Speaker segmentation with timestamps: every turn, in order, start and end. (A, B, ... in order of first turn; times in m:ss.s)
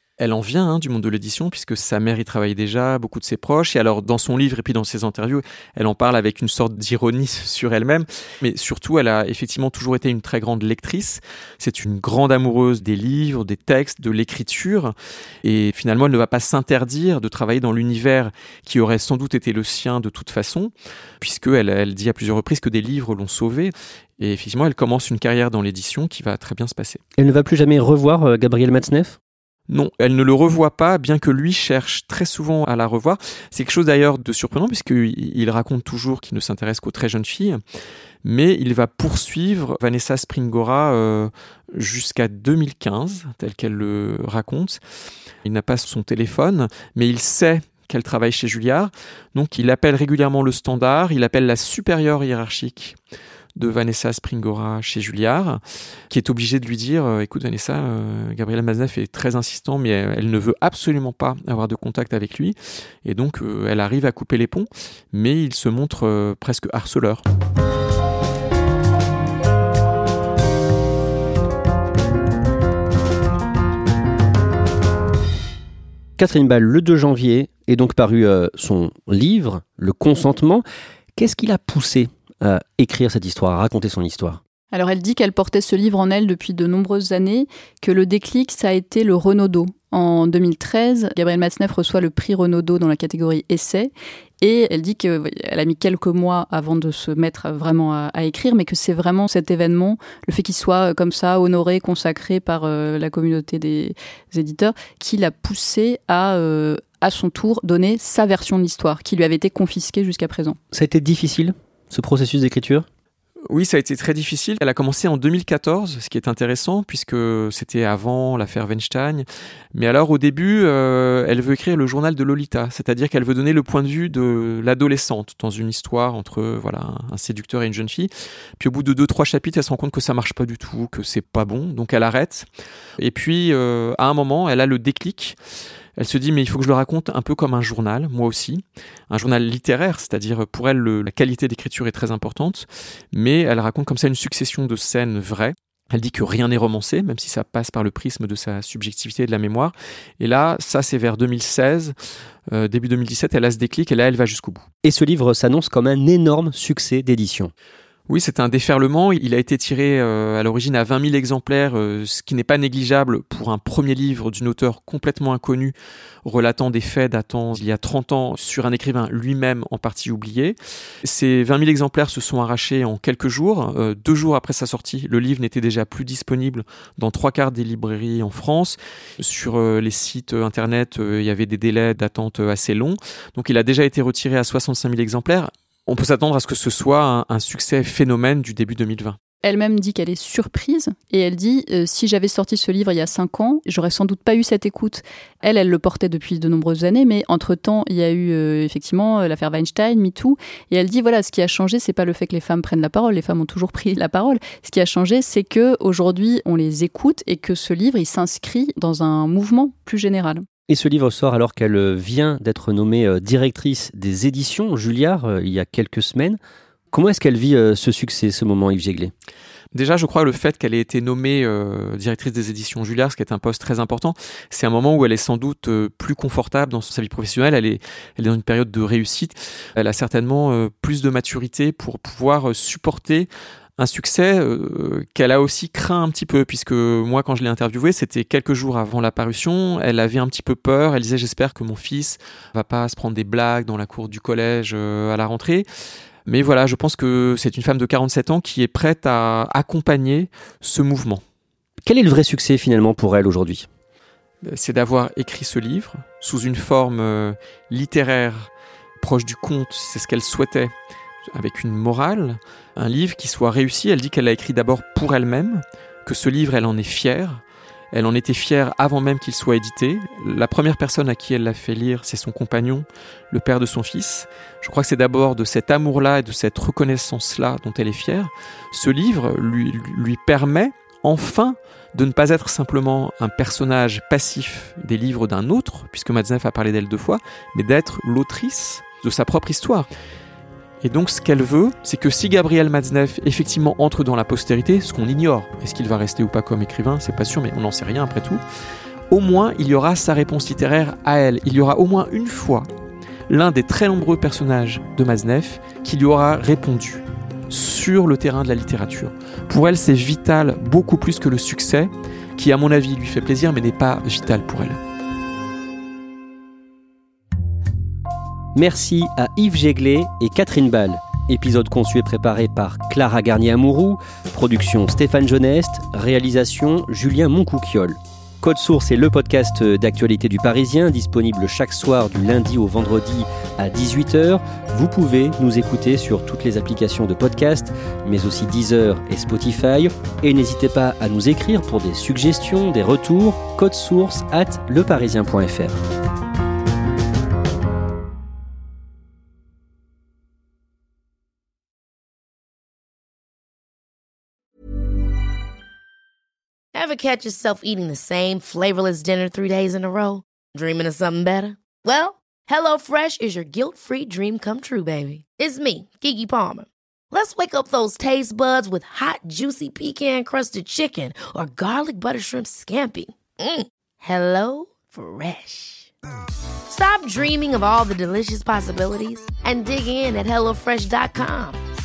0:00.2-0:27.0 A
0:27.2-0:29.2 B
0:29.7-0:37.6 A
0:38.2-0:44.8 A
0:45.4-0:53.0 A
0:53.6-1:07.2 A
1:16.2-1:20.6 B
1:21.2-1:24.4 B
1:24.7-1:50.6 C
1:50.7-1:52.9 B
1:53.5-2:12.5 A
2:13.0-2:15.4 A
2:16.0-2:31.9 A
2:32.5-2:34.6 A
2:34.8-2:37.5 B
2:38.1-3:09.2 A
3:09.4-3:30.4 C
3:30.7-3:36.4 B
3:36.9-3:39.1 B
3:39.7-4:05.6 A
4:06.3-4:11.2 A
4:11.8-4:13.7 B
4:14.4-4:20.7 A
4:21.3-4:49.9 A
4:50.8-4:58.4 A
4:59.1-5:02.7 A
5:03.3-5:14.8 A
5:18.6-5:45.8 B
5:56.7-6:15.9 D
6:16.7-6:21.6 D